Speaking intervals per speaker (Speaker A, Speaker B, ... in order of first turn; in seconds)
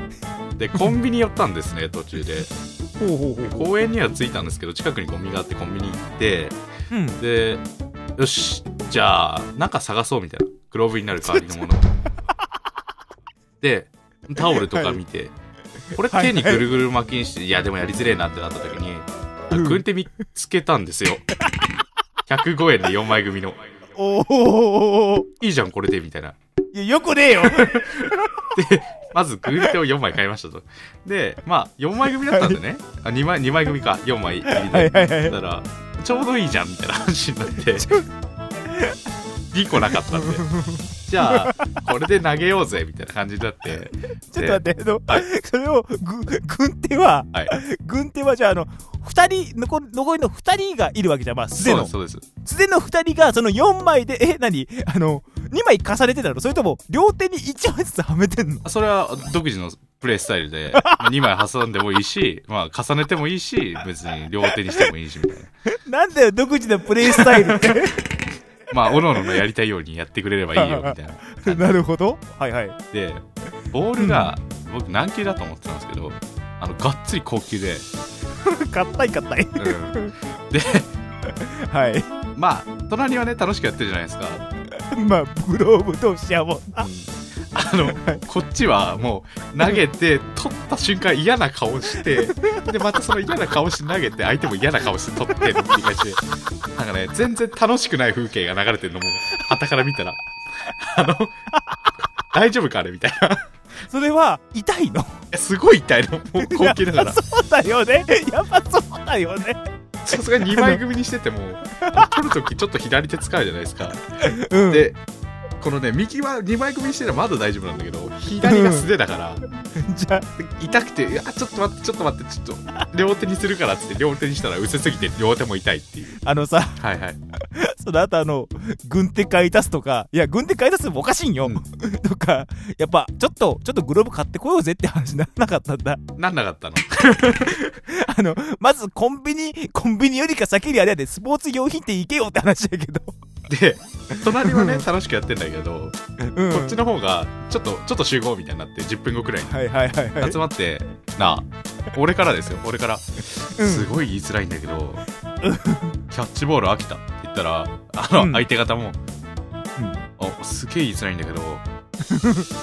Speaker A: 0.6-2.5, 3.4-6.6, 7.2-7.6, 8.2-11.9, 13.6-15.3, 15.9-21.2, 22.3-23.6, 25.4-26.4, 27.3-38.0, 39.5-40.5, 41.0-45.2, 51.6-52.2, 58.6-65.5, 67.0-67.9, 68.7-71.8, 72.9-77.9, 79.6-80.9, 82.3-84.5, 86.8-96.2, 96.7-101.3, 102.3-103.5, 105.3-107.2, 110.0-115.0, 115.6-119.4, 120.4-126.2, 126.8-127.2, 136.2-137.8, 143.5-149.6, 150.2-155.0, 156.1-159.0, 160.2-161.6
Speaker B: 3.0-3.7, 6.9-7.2, 14.4-15.0, 16.1-16.6, 19.5-19.8, 23.9-25.3, 26.7-28.4, 32.3-32.6, 34.5-35.4, 40.1-41.7, 44.3-58.6, 60.7-61.0, 65.7-68.0, 70.5-72.8, 74.0-74.3, 78.4-80.1, 81.3-82.1, 84.9-86.9, 87.8-88.2, 103.9-105.2, 106.4-109.6, 110.1-110.8, 111.8-112.0, 114.2-114.9, 118.4-118.9, 119.8-120.3, 126.2-126.8, 127.5-136.0, 137.8-143.1, 144.2-144.8, 146.2-146.8, 149.4-150.4, 153.6-153.9, 155.4-156.0, 158.2-158.4, 159.8-160.1, 162.1-162.5